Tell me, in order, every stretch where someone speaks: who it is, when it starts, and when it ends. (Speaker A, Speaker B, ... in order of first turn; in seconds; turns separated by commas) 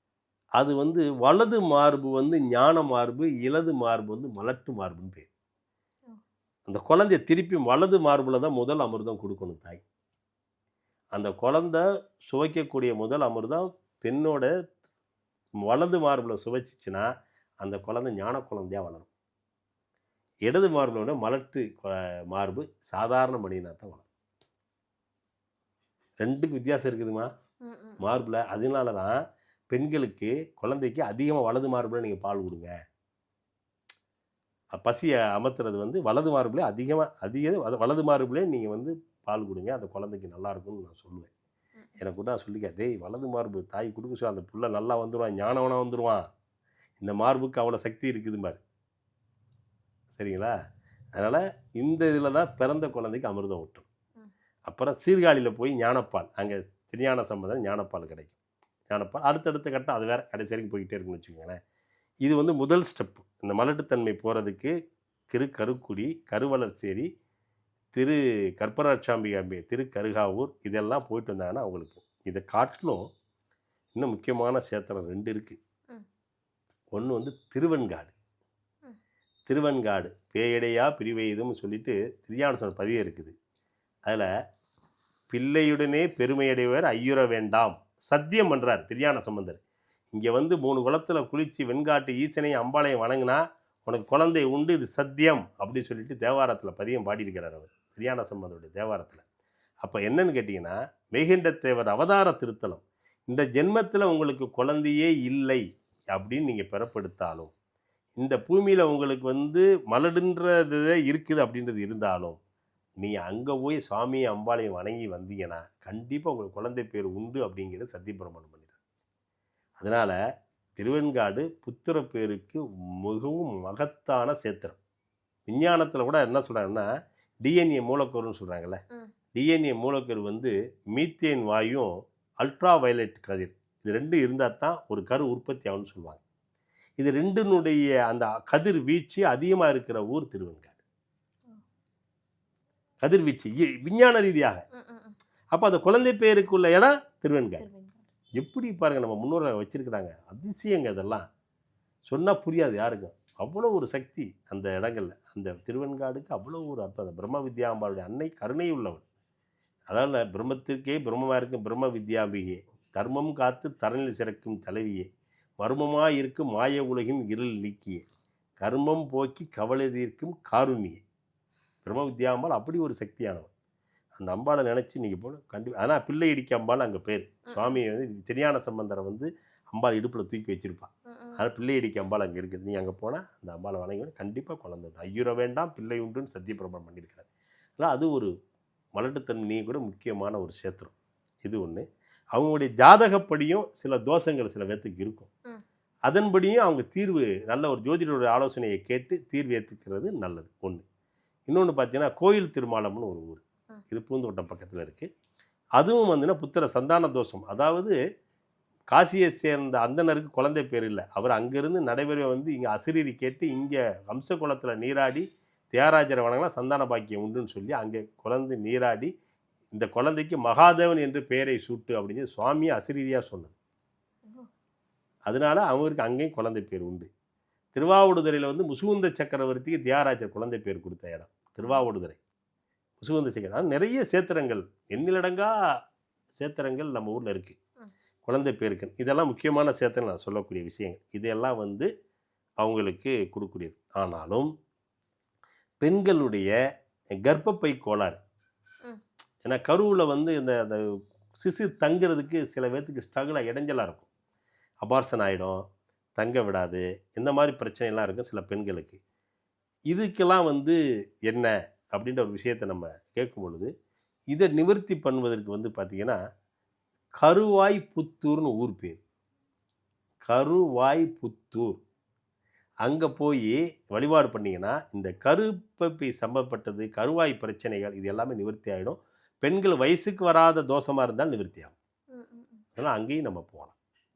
Speaker A: 0.6-5.3, Speaker A: 6.7-9.8, Speaker A: 11.1-14.5, Speaker A: 15.6-17.1, Speaker A: 17.6-19.1, Speaker A: 20.5-24.1, Speaker A: 26.2-27.3, Speaker B: 27.6-28.0, Speaker A: 28.0-32.7, Speaker A: 34.7-41.3, Speaker A: 42.0-46.2, Speaker A: 47.0-48.6, Speaker A: 50.1-50.5, Speaker A: 51.1-53.9, Speaker A: 54.7-58.4, Speaker A: 58.9-61.6, Speaker A: 62.2-64.7, Speaker A: 65.3-67.1, Speaker A: 67.9-73.1, Speaker A: 73.9-75.6, Speaker A: 76.9-78.1, Speaker A: 79.5-83.4, Speaker A: 85.3-89.6, Speaker A: 90.1-99.2, Speaker A: 99.8-107.5, Speaker A: 108.2-112.4, Speaker A: 113.0-118.8, Speaker A: 119.8-120.2, Speaker A: 120.8-124.8, Speaker A: 125.5-126.9, Speaker A: 127.4-128.8, Speaker A: 129.3-136.2, Speaker A: 137.0-140.8, Speaker A: 143.0-144.6, Speaker B: 144.8-145.2, Speaker A: 145.5-147.7, Speaker B: 147.6-148.1, Speaker A: 148.4-151.3, Speaker A: 152.1-159.0, Speaker A: 159.9-165.1, Speaker A: 165.6-168.0, Speaker A: 168.6-171.0, Speaker A: 171.8-173.5, Speaker A: 174.2-188.3, Speaker B: 177.5-177.8, Speaker B: 181.1-181.4, Speaker A: 188.9-190.9, Speaker A: 191.4-195.3, Speaker A: 196.1-200.8, Speaker A: 201.5-205.1, Speaker A: 205.8-207.9, Speaker A: 208.9-219.1, Speaker A: 219.7-223.5, Speaker A: 225.2-227.1, Speaker A: 227.8-232.2, Speaker A: 233.0-235.5, Speaker A: 236.3-237.6, Speaker A: 238.2-241.9, Speaker A: 242.6-244.5, Speaker A: 245.8-246.5, Speaker A: 247.2-248.2, Speaker A: 249.4-250.8, Speaker A: 251.4-254.1, Speaker A: 254.8-255.6, Speaker A: 256.2-259.0, Speaker A: 259.9-260.8, Speaker A: 261.3-263.7, Speaker A: 264.3-266.2, Speaker A: 267.2-269.0, Speaker A: 270.2-271.8, Speaker A: 272.8-281.7, Speaker B: 282.1-282.6, Speaker A: 282.8-283.7